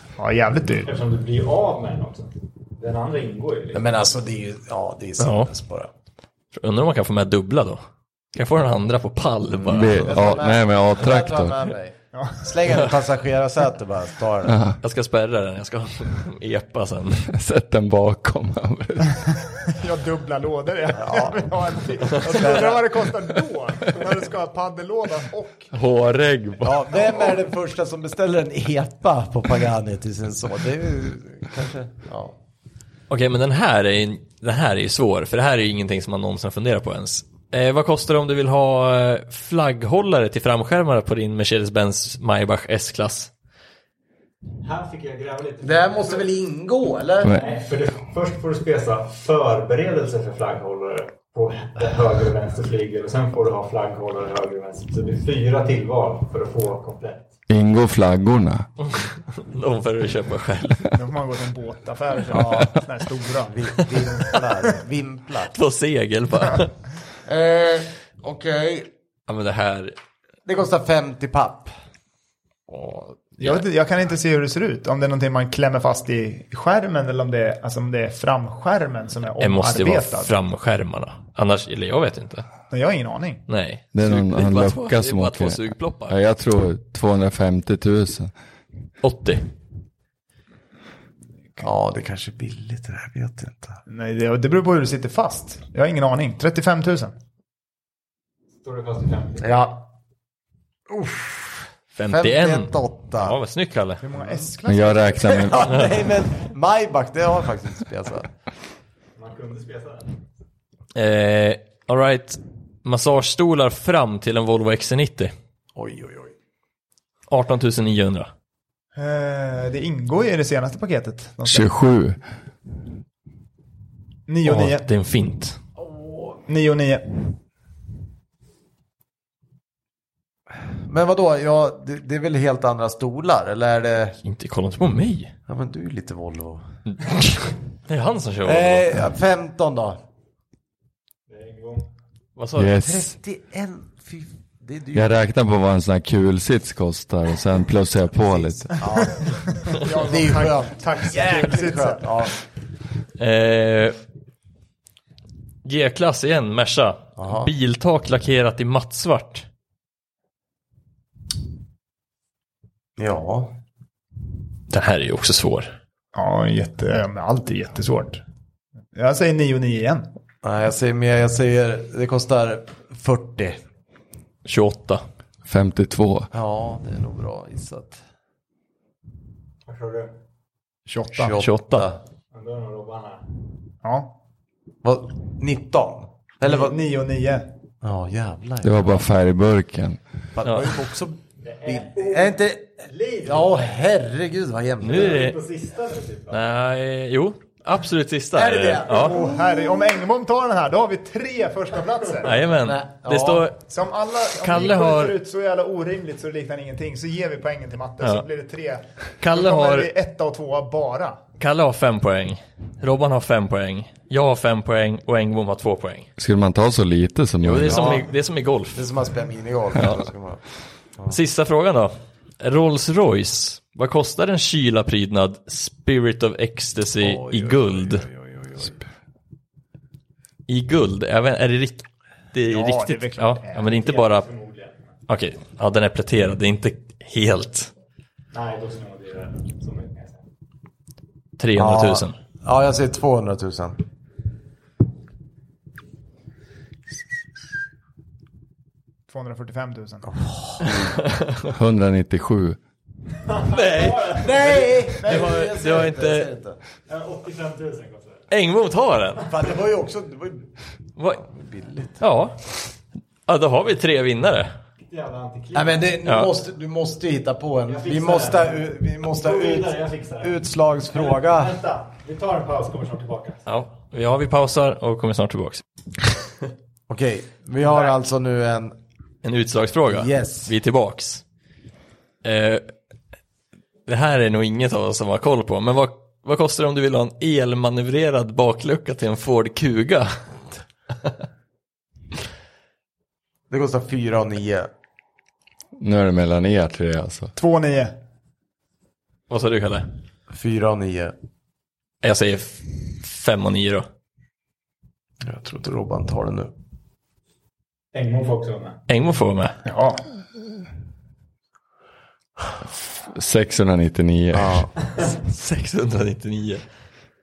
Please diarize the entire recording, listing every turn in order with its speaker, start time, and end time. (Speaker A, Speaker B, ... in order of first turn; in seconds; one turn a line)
Speaker A: 0.2-0.9
Speaker B: 0.8-3.8
Speaker C: 3.7-5.9
Speaker D: 5.2-5.5
Speaker D: 6.5-7.8
Speaker D: 8.3-10.4
Speaker C: 9.5-14.7
Speaker E: 9.7-11.6
Speaker A: 12.1-12.5
Speaker E: 14.4-14.8
Speaker D: 14.8-17.3
Speaker E: 17.3-19.4
Speaker A: 19.7-25.7
Speaker C: 20.9-21.4
Speaker C: 22.1-22.8
Speaker E: 25.7-27.2
Speaker C: 26.6-32.3
Speaker D: 33.1-43.3
Speaker B: 44.6-46.3
Speaker C: 45.6-47.4
Speaker B: 47.3-57.3
Speaker E: 57.5-58.6
Speaker D: 58.8-60.9
Speaker A: 60.9-64.4
Speaker C: 62.3-62.8
Speaker C: 63.4-65.5
Speaker D: 65.5-66.7
Speaker C: 67.2-68.9
Speaker D: 69.3-69.9
Speaker C: 70.5-71.7
Speaker D: 72.7-73.6
Speaker A: 73.4-80.3
Speaker D: 79.4-82.5
Speaker A: 82.7-83.4
Speaker D: 83.5-86.2
Speaker E: 83.9-88.3
Speaker D: 89.0-89.5
Speaker C: 91.6-93.8
Speaker A: 93.9-97.1
Speaker B: 98.6-99.5
Speaker C: 99.4-99.8
Speaker C: 100.9-103.3
Speaker D: 101.9-104.0
Speaker A: 104.0-105.6
Speaker C: 104.2-104.5
Speaker E: 104.7-105.8
Speaker C: 105.3-108.3
Speaker D: 105.6-106.1
Speaker B: 109.2-110.3
Speaker D: 110.9-115.3
Speaker C: 115.7-116.3
Speaker D: 117.3-118.3
Speaker A: 119.0-121.7
Speaker E: 121.4-122.2
Speaker A: 124.3-124.9
Speaker D: 124.4-125.6
Speaker C: 125.8-126.4
Speaker A: 126.5-127.2
Speaker C: 130.8-134.2
Speaker D: 134.2-135.3
Speaker C: 135.5-136.7
Speaker D: 136.9-138.9
Speaker C: 138.4-140.0
Speaker B: 141.3-141.9
Speaker D: 142.3-142.7
Speaker E: 142.6-143.1
Speaker C: 142.8-145.2
Speaker E: 144.9-148.8
Speaker C: 148.2-152.3
Speaker A: 148.8-152.3
Speaker D: 153.2-153.9
Speaker D: 155.6-159.4
Speaker C: 157.2-157.5
Speaker C: 163.0-163.5
Speaker D: 164.7-165.7
Speaker A: 166.1-168.2
Speaker A: 168.9-170.1
Speaker C: 170.4-173.6
Speaker D: 174.4-175.0
Speaker E: 175.4-176.3
Speaker C: 176.3-178.0
Speaker B: 179.7-180.1
Speaker A: 180.9-181.4
Speaker C: 181.1-182.0
Speaker D: 181.4-181.9
Speaker B: 182.3-183.2
Speaker A: 183.8-184.1
Speaker C: 184.8-186.8
Speaker A: 186.4-187.5
Speaker C: 187.8-189.0
Speaker E: 188.6-190.0
Speaker C: 190.3-195.2
Speaker D: 190.4-190.8
Speaker B: 191.4-193.6
Speaker D: 194.8-195.3
Speaker B: 194.9-196.4
Speaker D: 196.3-199.2
Speaker C: 198.3-199.9
Speaker A: 198.9-202.4
Speaker D: 202.2-203.6
Speaker C: 202.6-203.5
Speaker A: 203.7-211.2
Speaker D: 204.3-205.2
Speaker D: 209.2-209.9
Speaker D: 211.4-216.1
Speaker E: 216.2-218.0
Speaker D: 217.4-218.9
Speaker C: 217.6-218.1
Speaker C: 218.7-220.4
Speaker D: 219.7-220.0
Speaker D: 221.1-228.1
Speaker C: 227.0-228.8
Speaker D: 230.5-234.3
Speaker A: 232.5-233.7
Speaker B: 233.7-234.9
Speaker D: 235.1-237.7
Speaker B: 238.3-240.2
Speaker D: 241.4-242.2
Speaker C: 241.6-243.8
Speaker A: 249.1-250.1
Speaker C: 250.1-251.0
Speaker D: 250.7-251.5
Speaker E: 251.5-252.6
Speaker B: 253.2-254.6
Speaker D: 253.5-256.3
Speaker C: 254.1-256.6
Speaker A: 255.0-255.3
Speaker B: 256.9-258.2
Speaker D: 258.3-259.3
Speaker C: 259.3-260.5
Speaker C: 261.2-262.0
Speaker D: 262.0-262.4
Speaker D: 263.3-264.5
Speaker B: 264.9-266.0
Speaker C: 265.5-271.6
Speaker D: 266.0-266.3
Speaker B: 267.6-270.4
Speaker B: 270.9-273.4
Speaker D: 273.4-275.6
Speaker C: 276.9-278.7
Speaker B: 277.6-277.9
Speaker D: 279.2-281.2
Speaker C: 279.9-280.5
Speaker D: 282.2-282.7
Speaker D: 283.9-290.1
Speaker C: 293.5-294.7
Speaker E: 295.8-297.3
Speaker A: 297.4-297.9
Speaker D: 299.3-299.9
Speaker C: 300.3-301.1
Speaker D: 302.0-303.9
Speaker C: 305.2-306.5
Speaker B: 307.9-308.8
Speaker D: 308.9-309.6
Speaker A: 309.6-310.0
Speaker E: 313.0-314.7
Speaker C: 314.3-314.7
Speaker D: 315.1-316.6